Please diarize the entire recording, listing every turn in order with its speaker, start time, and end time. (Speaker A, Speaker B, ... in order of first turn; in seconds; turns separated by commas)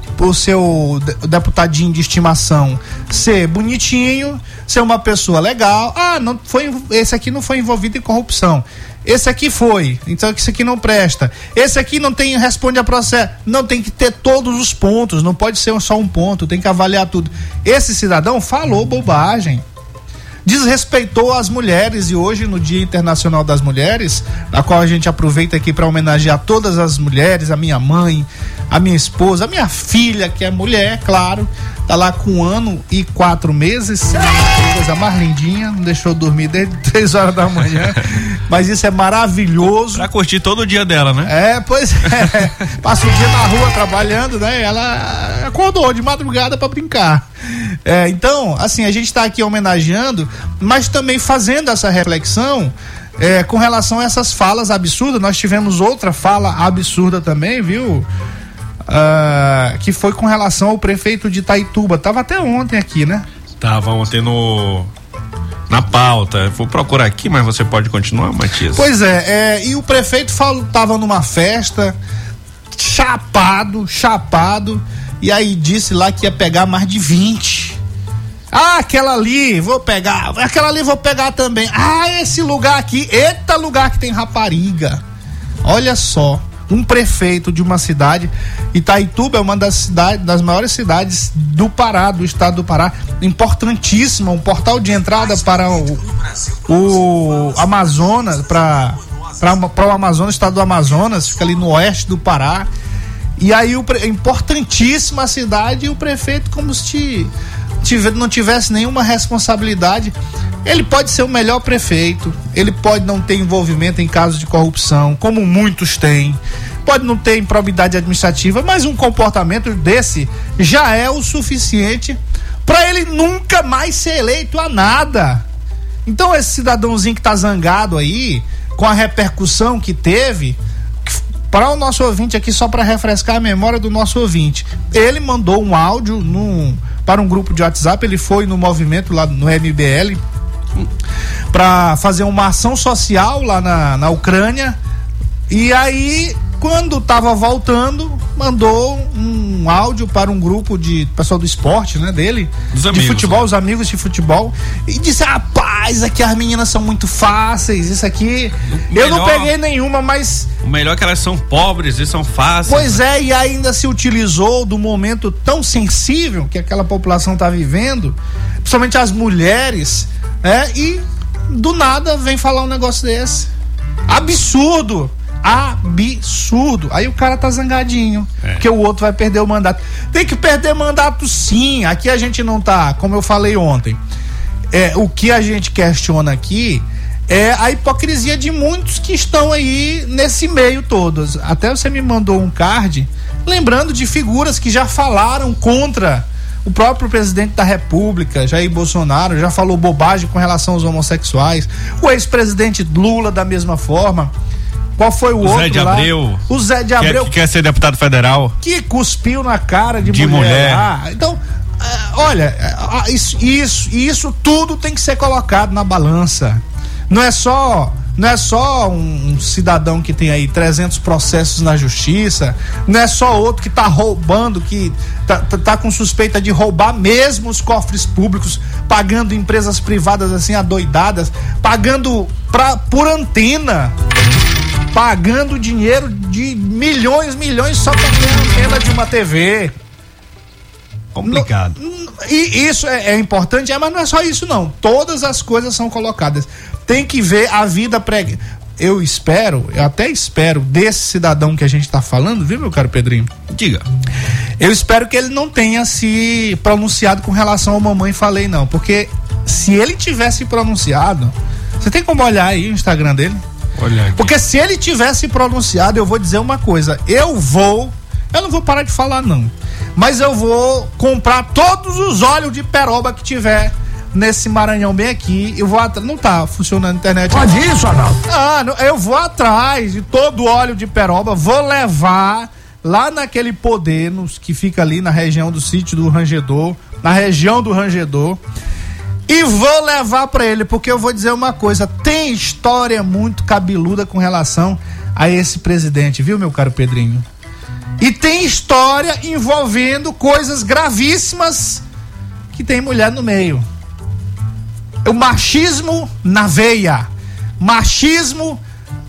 Speaker A: 0.2-19.6, Speaker A: 20.4-40.1, Speaker B: 37.7-38.0, Speaker B: 39.9-41.3, Speaker A: 41.2-58.1, Speaker A: 58.9-63.2, Speaker B: 63.6-64.9, Speaker B: 65.7-68.9, Speaker A: 68.7-72.0, Speaker A: 72.7-77.8, Speaker A: 78.5-85.0, Speaker A: 85.6-96.1, Speaker A: 96.7-102.7, Speaker A: 103.4-107.3, Speaker A: 107.8-125.5, Speaker A: 126.0-140.2, Speaker A: 141.5-144.8, Speaker A: 145.5-160.5, Speaker B: 152.7-153.5, Speaker B: 158.7-159.5, Speaker B: 160.6-163.0, Speaker A: 162.7-173.5, Speaker A: 174.1-184.0, Speaker A: 184.7-204.3, Speaker A: 205.0-207.3, Speaker B: 205.4-206.4, Speaker B: 207.0-208.6, Speaker A: 208.6-233.9, Speaker B: 210.0-210.9, Speaker A: 234.9-239.7, Speaker B: 241.1-241.8, Speaker A: 241.2-253.3, Speaker B: 253.5-253.8, Speaker A: 254.6-263.4, Speaker B: 263.8-264.3, Speaker A: 264.1-288.4, Speaker A: 289.3-297.2, Speaker A: 298.0-301.8, Speaker A: 302.5-303.6, Speaker A: 305.0-308.6